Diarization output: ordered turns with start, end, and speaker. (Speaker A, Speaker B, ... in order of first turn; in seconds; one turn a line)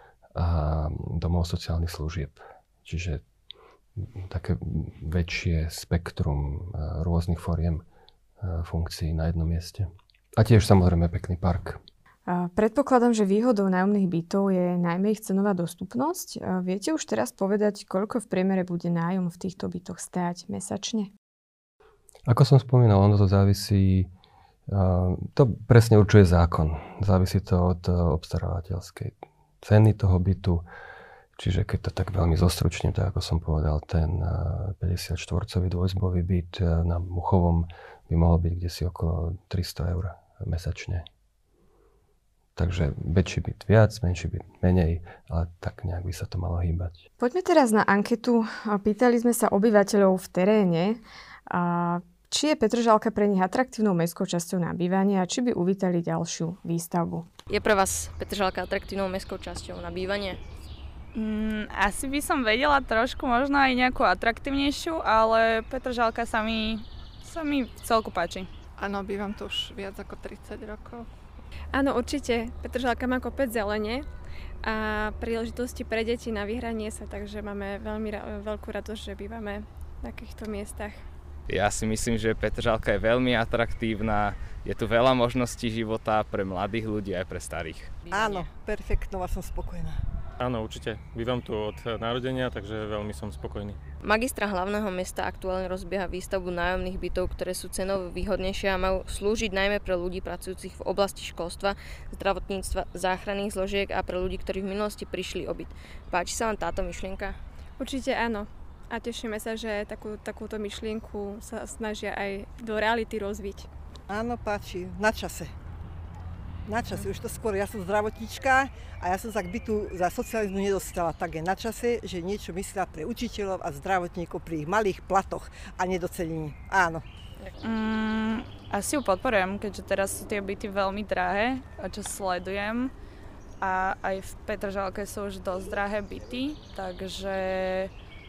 Speaker A: 0.3-3.2
Speaker A: 4.0-7.8
Speaker A: 8.4-11.8
Speaker B: 12.3-21.1
Speaker A: 22.3-24.1
Speaker A: 24.7-30.6
Speaker A: 31.4-41.0
Speaker A: 42.5-47.0
Speaker B: 47.2-57.3
Speaker C: 57.5-60.4
Speaker D: 61.1-68.5
Speaker E: 68.8-71.1
Speaker F: 71.7-74.1
Speaker F: 74.6-81.0
Speaker G: 81.5-88.0
Speaker H: 88.1-90.0
Speaker I: 90.4-93.8
Speaker C: 94.0-107.3
Speaker F: 107.8-113.7
Speaker H: 114.1-115.5
Speaker H: 116.7-127.0
Speaker D: 127.6-132.9
Speaker D: 133.6-137.9